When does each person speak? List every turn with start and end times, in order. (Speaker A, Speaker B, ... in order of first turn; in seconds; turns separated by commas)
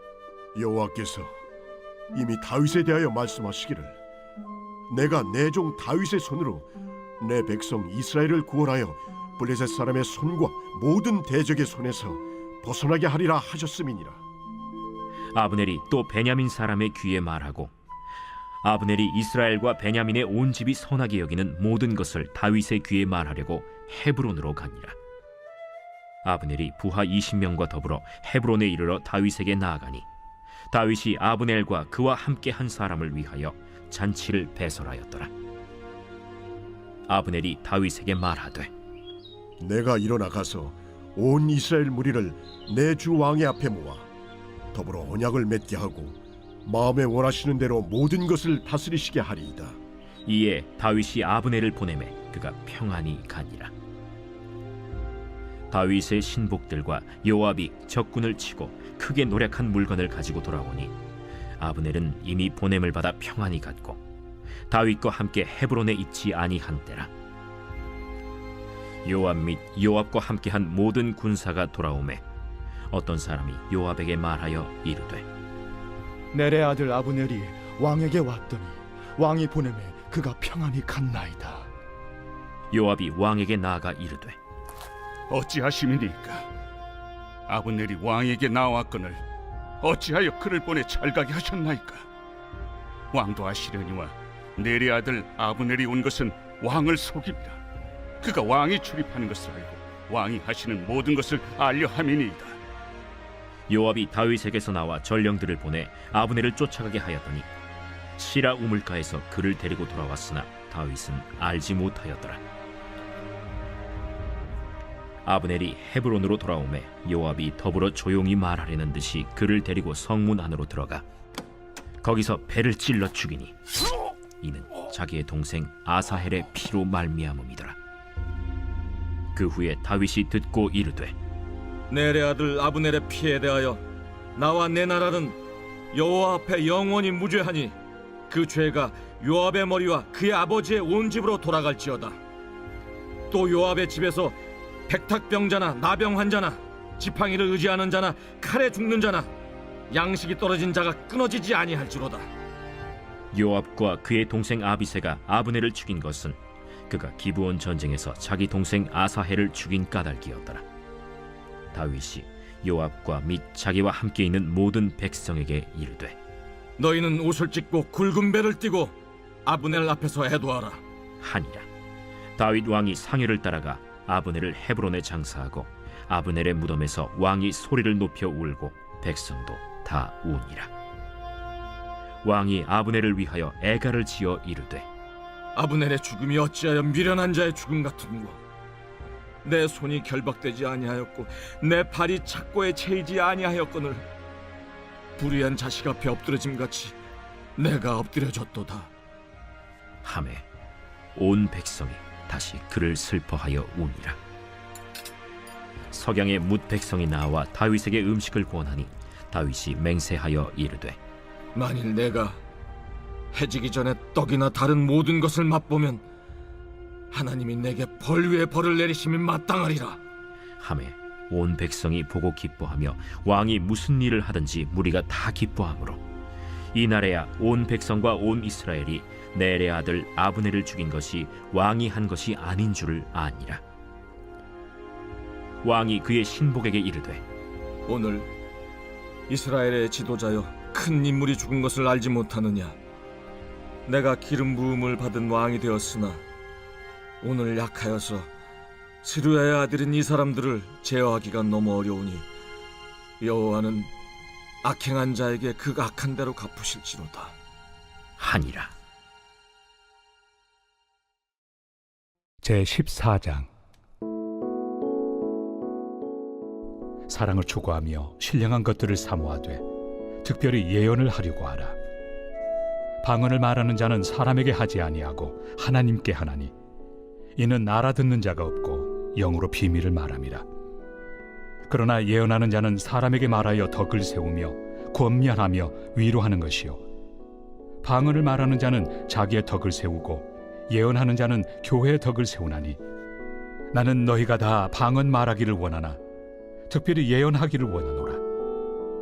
Speaker A: 0.5-1.3, Speaker A: 2.1-4.0, Speaker A: 4.9-6.7, Speaker A: 7.2-14.2, Speaker B: 15.3-17.7, Speaker B: 18.6-24.9, Speaker B: 26.2-30.1, Speaker B: 30.7-35.3, Speaker B: 37.1-38.7, Speaker A: 39.6-44.1, Speaker A: 44.7-49.8, Speaker B: 50.2-53.7, Speaker B: 55.7-60.9, Speaker B: 61.6-64.0, Speaker B: 64.7-67.1, Speaker B: 69.0-72.2, Speaker B: 72.9-75.2, Speaker C: 76.3-81.7, Speaker B: 82.7-84.4, Speaker D: 85.3-86.5, Speaker D: 87.5-89.2, Speaker D: 89.8-92.0, Speaker D: 93.1-97.6, Speaker D: 98.2-102.6, Speaker B: 103.7-107.5, Speaker B: 108.2-112.4, Speaker B: 115.2-121.0, Speaker B: 122.0-123.5, Speaker B: 124.4-127.8, Speaker B: 129.3-131.1, Speaker E: 131.9-133.8, Speaker E: 134.3-135.4, Speaker E: 135.9-137.8, Speaker E: 138.3-142.2, Speaker E: 143.3-144.4, Speaker E: 144.9-149.3, Speaker E: 149.9-152.3, Speaker B: 153.3-156.4, Speaker B: 156.9-160.6, Speaker B: 161.7-166.2, Speaker E: 166.8-170.8, Speaker B: 171.2-171.7, Speaker B: 172.4-180.7, Speaker B: 182.2-184.8, Speaker E: 185.5-188.4, Speaker E: 189.4-194.1, Speaker E: 195.2-197.0, Speaker E: 197.6-198.9, Speaker B: 200.0-200.4, Speaker B: 201.1-204.2, Speaker B: 205.9-211.0, Speaker E: 211.5-212.4, Speaker E: 213.3-216.0, Speaker E: 217.1-220.0, Speaker B: 220.6-226.0, Speaker B: 226.7-233.6, Speaker B: 235.6-237.2, Speaker E: 237.9-238.3, Speaker E: 239.3-242.8, Speaker E: 243.9-246.2, Speaker E: 247.2-248.3, Speaker E: 249.0-252.3, Speaker E: 253.2-253.9, Speaker E: 254.6-257.3, Speaker B: 258.2-258.7, Speaker F: 262.4-263.5, Speaker F: 267.1-269.6, Speaker F: 270.2-271.8, Speaker F: 273.0-276.5, Speaker F: 277.4-280.4, Speaker F: 281.7-286.8, Speaker F: 287.8-292.8, Speaker F: 293.7-296.0, Speaker F: 296.7-298.2